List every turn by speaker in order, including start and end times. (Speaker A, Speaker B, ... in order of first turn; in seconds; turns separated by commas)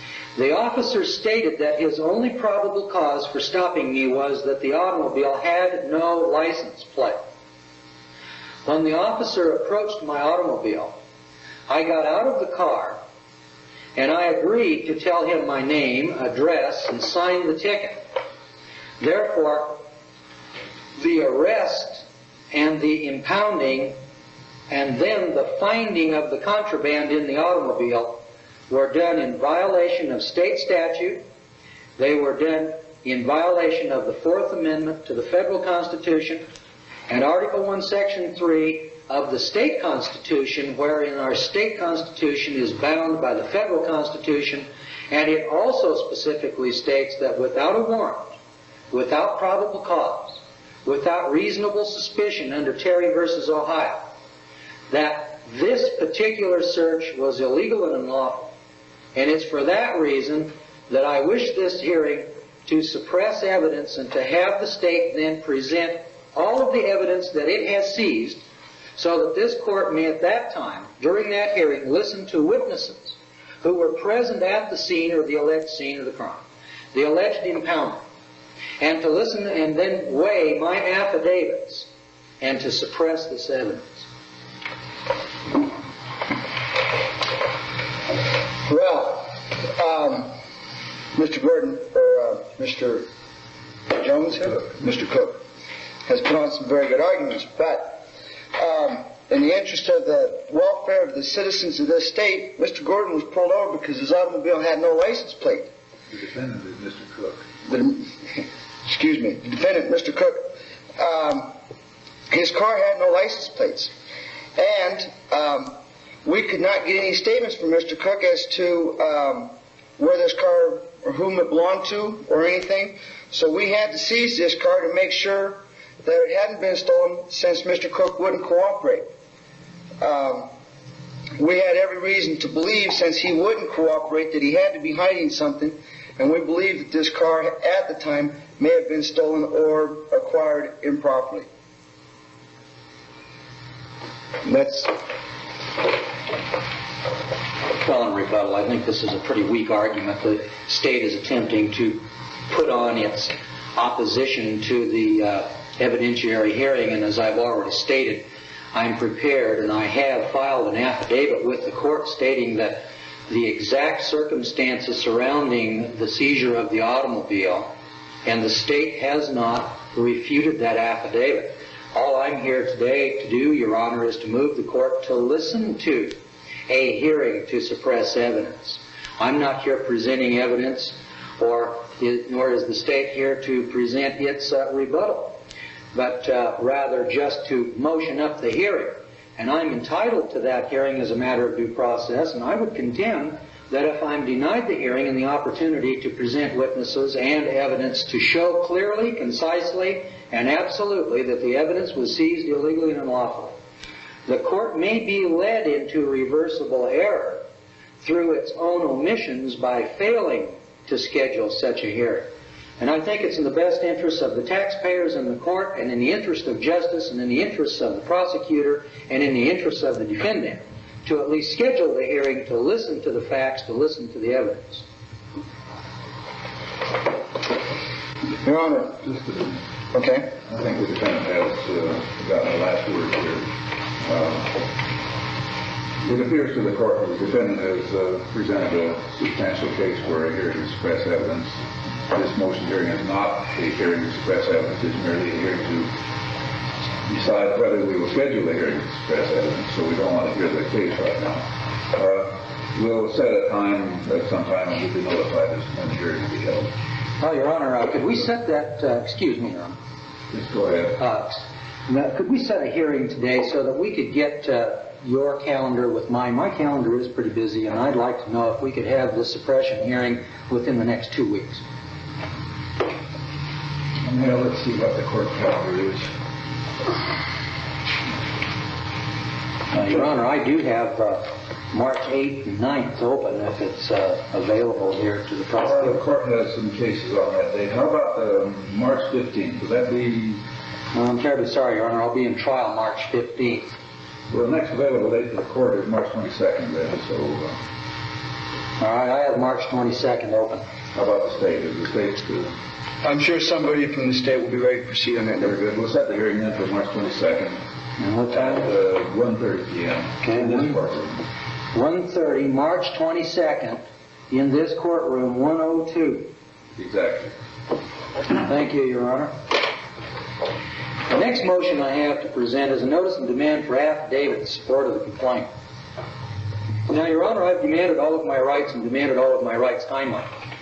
Speaker A: 0.4-7.2, Speaker A: 8.7-11.0, Speaker A: 11.7-13.0, Speaker A: 14.0-18.0, Speaker A: 19.0-19.9, Speaker A: 21.0-24.0, Speaker A: 24.7-31.2, Speaker A: 32.0-36.5, Speaker A: 37.1-48.4, Speaker A: 48.9-54.1, Speaker A: 54.9-58.5, Speaker A: 59.1-68.4, Speaker A: 69.0-78.0, Speaker A: 78.8-81.9, Speaker A: 82.4-84.1, Speaker B: 88.6-90.4, Speaker B: 91.1-93.1, Speaker B: 93.9-95.4, Speaker B: 96.1-105.7, Speaker C: 106.1-107.5, Speaker B: 107.7-111.6, Speaker B: 112.3-113.9, Speaker B: 114.6-129.1, Speaker B: 130.0-130.5, Speaker B: 131.4-141.5, Speaker B: 144.4-145.0, Speaker A: 147.8-167.7, Speaker A: 168.2-185.4, Speaker A: 185.9-203.6, Speaker A: 204.3-207.4, Speaker A: 208.0-224.9, Speaker B: 228.4-229.0, Speaker C: 229.0-229.6, Speaker B: 229.9-230.3, Speaker C: 230.4-234.7, Speaker C: 236.0-245.9, Speaker C: 247.1-256.7, Speaker A: 257.2-259.8, Speaker C: 260.3-261.0, Speaker A: 261.0-271.6, Speaker C: 274.1-276.1, Speaker A: 279.7-286.0, Speaker C: 285.6-290.4, Speaker A: 290.9-293.7, Speaker C: 294.3-297.6, Speaker A: 298.8-300.6, Speaker C: 300.9-302.6, Speaker B: 303.0-305.6, Speaker C: 305.4-307.6, Speaker A: 308.0-308.7, Speaker C: 308.3-311.2, Speaker A: 310.2-310.8, Speaker A: 311.7-316.3, Speaker C: 316.8-317.4, Speaker A: 318.4-319.4, Speaker A: 321.1-325.5, Speaker A: 326.9-330.3